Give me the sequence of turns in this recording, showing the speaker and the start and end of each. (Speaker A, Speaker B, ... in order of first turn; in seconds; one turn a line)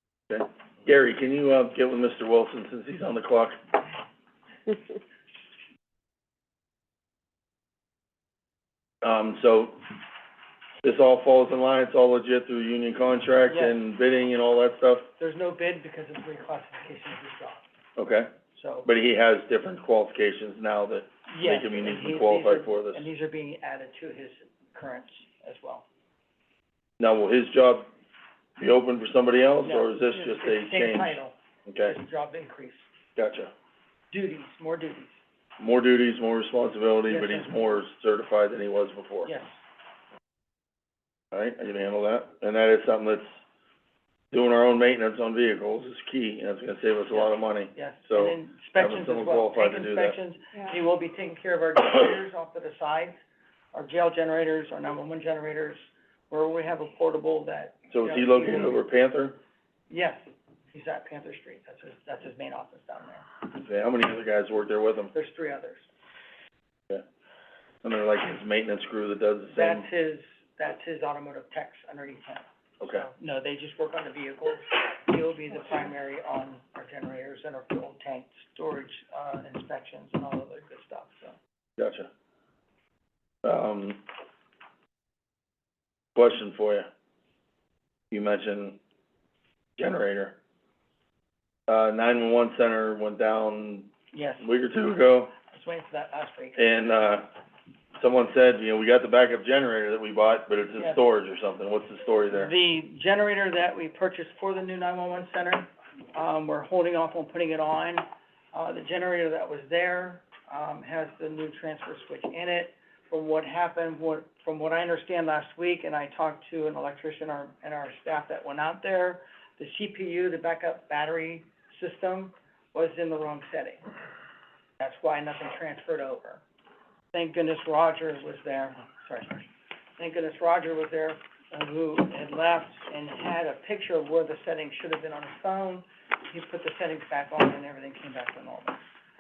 Speaker A: 0.3-3.6
Speaker A: 9.0-9.8
Speaker A: 10.8-15.1
Speaker B: 13.5-13.8
Speaker B: 15.2-17.6
Speaker A: 18.0-18.3
Speaker B: 18.6-18.9
Speaker A: 18.9-23.1
Speaker B: 21.3-25.9
Speaker A: 27.0-27.9
Speaker A: 28.6-31.9
Speaker B: 29.6-32.9
Speaker A: 33.2-33.5
Speaker B: 34.1-35.2
Speaker A: 35.6-39.3
Speaker B: 37.1-37.6
Speaker B: 39.2-39.6
Speaker A: 41.3-43.4
Speaker A: 44.3-50.2
Speaker B: 47.1-53.2
Speaker B: 53.7-58.8
Speaker A: 57.9-59.4
Speaker B: 59.9-60.2
Speaker B: 60.7-63.3
Speaker A: 63.5-65.1
Speaker B: 65.1-65.9
Speaker A: 67.8-69.8
Speaker B: 69.5-81.3
Speaker A: 72.8-73.1
Speaker A: 81.8-82.1
Speaker A: 83.4-84.0
Speaker A: 86.2-86.9
Speaker A: 88.1-88.8
Speaker A: 89.8-90.4
Speaker A: 91.7-95.3
Speaker B: 94.1-94.5
Speaker B: 95.5-96.7
Speaker A: 96.6-97.3
Speaker A: 98.0-102.5
Speaker B: 102.3-123.8
Speaker B: 124.8-126.4
Speaker B: 127.1-129.5
Speaker B: 130.0-138.8